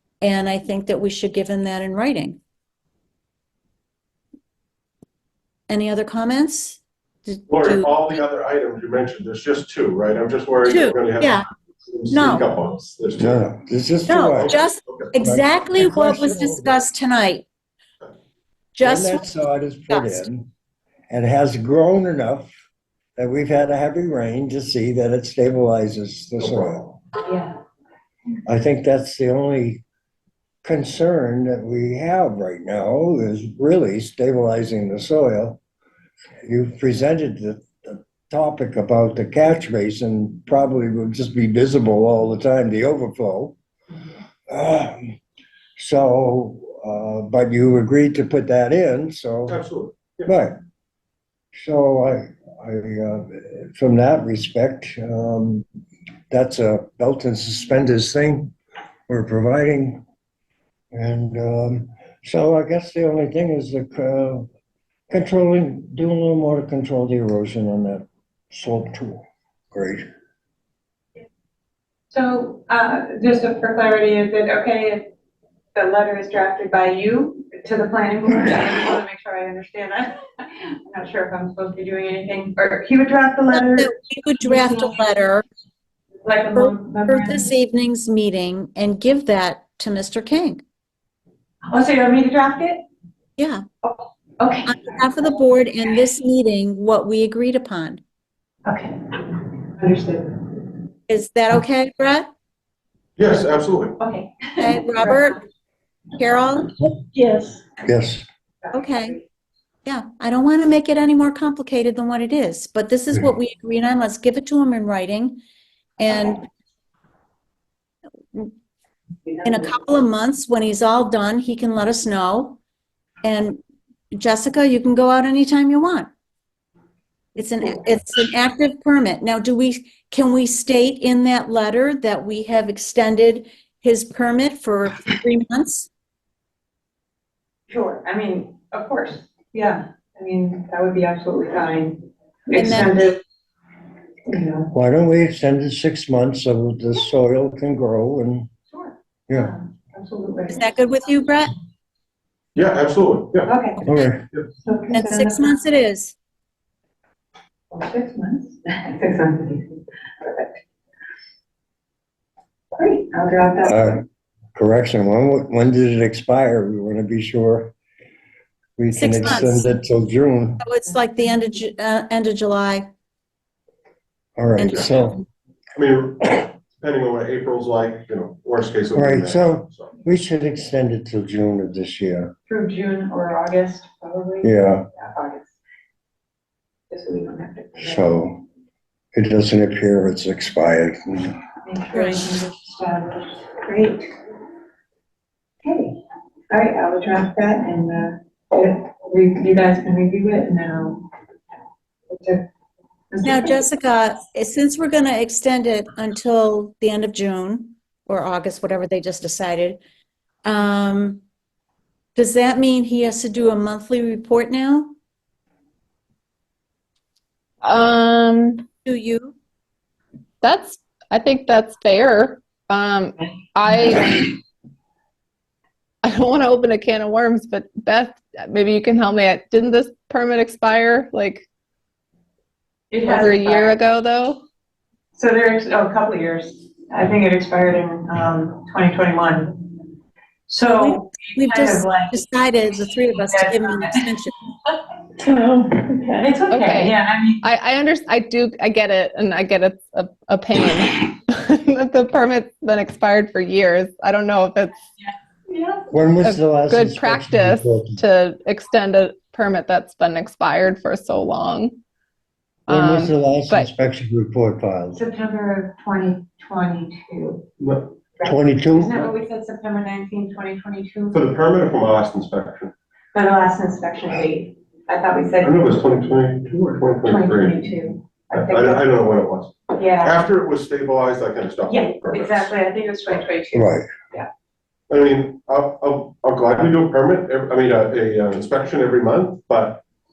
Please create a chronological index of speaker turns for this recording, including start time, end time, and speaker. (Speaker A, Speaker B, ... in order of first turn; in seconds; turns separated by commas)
Speaker A: 0.2-2.4, Speaker A: 5.7-8.2, Speaker B: 7.5-13.4, Speaker A: 10.7-11.4, Speaker A: 12.1-12.5, Speaker C: 13.2-14.6, Speaker A: 14.1-17.5, Speaker B: 14.4-15.1, Speaker C: 15.2-16.7, Speaker A: 18.8-20.3, Speaker C: 18.8-20.5, Speaker C: 21.1-22.5, Speaker C: 23.2-27.0, Speaker B: 26.4-26.7, Speaker D: 27.3-27.5, Speaker C: 28.5-29.8, Speaker C: 30.6-35.6, Speaker C: 36.5-43.6, Speaker C: 44.5-45.2, Speaker C: 45.8-49.6, Speaker B: 49.5-50.3, Speaker C: 50.3-50.6, Speaker C: 51.5-55.7, Speaker C: 56.3-58.5, Speaker C: 59.1-60.0, Speaker C: 60.9-64.5, Speaker C: 65.1-70.1, Speaker D: 72.1-75.1, Speaker D: 75.8-85.0, Speaker A: 83.5-85.5, Speaker D: 86.2-87.5, Speaker A: 86.5-90.6, Speaker D: 91.7-92.8, Speaker A: 93.4-93.6, Speaker D: 93.8-94.8, Speaker A: 94.7-98.0, Speaker D: 98.7-100.7, Speaker A: 101.1-102.3, Speaker B: 103.2-104.0, Speaker D: 104.0-105.3, Speaker A: 104.6-105.4, Speaker A: 106.2-106.7, Speaker D: 107.1-107.7, Speaker C: 107.8-108.3, Speaker D: 108.6-109.2, Speaker A: 108.7-109.2, Speaker A: 109.8-115.4, Speaker A: 116.0-116.5, Speaker A: 119.4-122.6, Speaker A: 123.2-123.6, Speaker A: 124.1-126.1, Speaker A: 127.3-135.9, Speaker D: 137.7-143.2, Speaker A: 142.5-143.1, Speaker D: 144.3-144.7, Speaker C: 144.7-148.5, Speaker D: 148.7-150.6, Speaker C: 149.3-149.5, Speaker A: 150.5-151.5, Speaker B: 152.6-153.5, Speaker D: 153.5-153.8, Speaker C: 153.8-154.3, Speaker D: 154.6-155.6, Speaker A: 154.9-156.2, Speaker D: 157.7-160.6, Speaker D: 162.8-163.9, Speaker C: 163.6-167.7, Speaker C: 168.8-170.6, Speaker A: 168.9-169.7, Speaker A: 170.6-172.9, Speaker C: 174.4-175.2, Speaker A: 174.6-175.2, Speaker B: 175.8-179.9, Speaker C: 178.9-182.3, Speaker D: 182.5-185.6, Speaker C: 184.4-184.9, Speaker D: 186.9-188.1, Speaker C: 187.8-188.4, Speaker C: 189.1-191.4, Speaker D: 191.6-194.1, Speaker A: 191.9-192.2, Speaker D: 195.6-196.0, Speaker D: 196.5-201.1, Speaker D: 202.1-202.4, Speaker D: 203.1-203.6, Speaker A: 203.2-209.8, Speaker A: 210.4-211.2, Speaker A: 212.2-214.9, Speaker E: 217.6-218.7, Speaker A: 218.9-219.3, Speaker E: 220.4-224.4, Speaker E: 226.0-231.5, Speaker D: 232.9-233.8, Speaker E: 233.0-234.4, Speaker D: 235.1-239.9, Speaker D: 240.5-242.2, Speaker A: 240.7-244.3, Speaker D: 243.1-244.1, Speaker D: 245.2-247.4, Speaker E: 246.5-254.8, Speaker D: 255.5-255.9, Speaker C: 255.9-258.0, Speaker E: 256.2-261.8, Speaker E: 262.7-263.7, Speaker C: 262.7-265.0, Speaker D: 264.9-267.4, Speaker B: 267.6-267.9, Speaker D: 268.2-271.3, Speaker C: 268.2-268.9, Speaker B: 271.1-272.7, Speaker D: 273.1-275.9, Speaker B: 275.4-277.8, Speaker D: 277.0-278.9, Speaker B: 278.3-282.5, Speaker D: 279.7-280.3, Speaker D: 281.7-284.3, Speaker C: 283.5-283.9, Speaker B: 284.9-289.8